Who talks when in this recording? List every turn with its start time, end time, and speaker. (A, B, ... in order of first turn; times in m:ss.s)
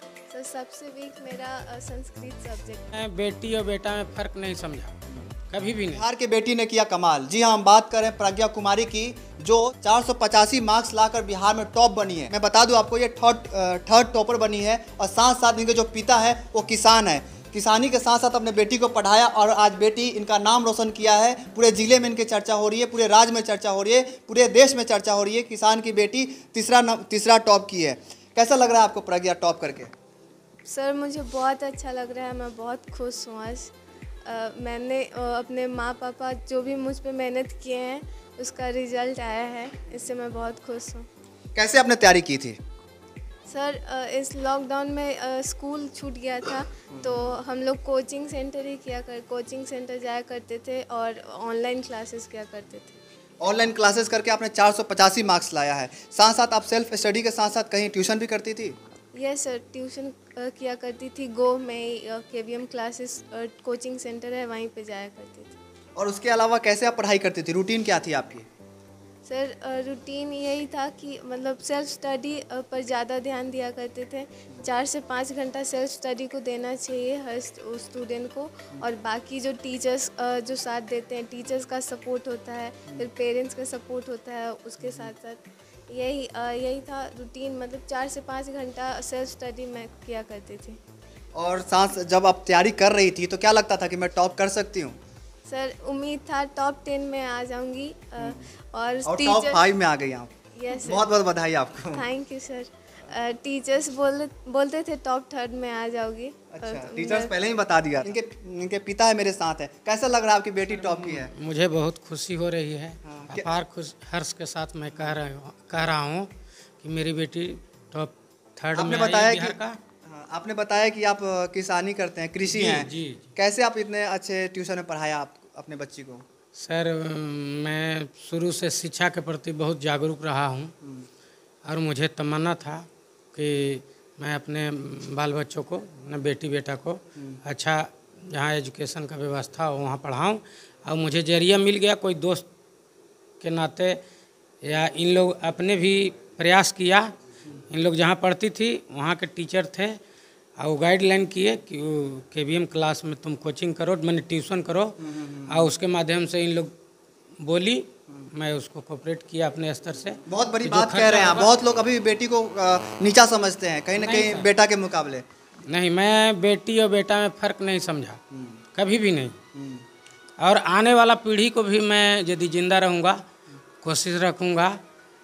0:00.3-0:02.9 A
0:02.9-0:06.0 B
0:05.9-0:29.9 C
0:30.6-0:33.7 A
0:34.2-0:41.1 A
0:41.6-0:42.6 C
0:43.5-0:53.0 A
0:46.9-0:47.2 C
0:53.4-0:58.8 C
0:59.1-1:05.6 A
1:06.0-1:08.5 C
1:09.2-1:30.8 A
1:24.8-1:25.1 C
1:31.4-1:35.0 C
1:35.5-1:39.6 A
1:38.2-1:38.5 C
1:39.0-1:42.1 C
1:40.5-1:41.1 A
1:41.9-1:47.3 A
1:46.5-1:51.3 C
1:50.8-1:56.3 B
1:53.0-1:53.5 C
1:56.8-1:59.8 B
1:58.7-2:06.2 C
2:02.4-2:03.2 B
2:06.6-2:10.7 B
2:10.8-2:11.1 C
2:11.6-2:22.5 B
2:17.2-2:17.4 C
2:23.4-2:24.0 B
2:24.6-2:27.1 B
2:27.7-2:30.0 B
2:30.6-2:36.7 B
2:35.0-2:35.7 C
2:37.4-2:41.5 B
2:40.3-2:45.2 C
2:44.0-2:44.5 B
2:45.7-2:48.2 B
2:48.3-2:48.6 C
2:48.8-2:49.4 B
2:49.5-2:49.8 C
2:50.4-2:53.2 B
2:53.8-2:54.8 B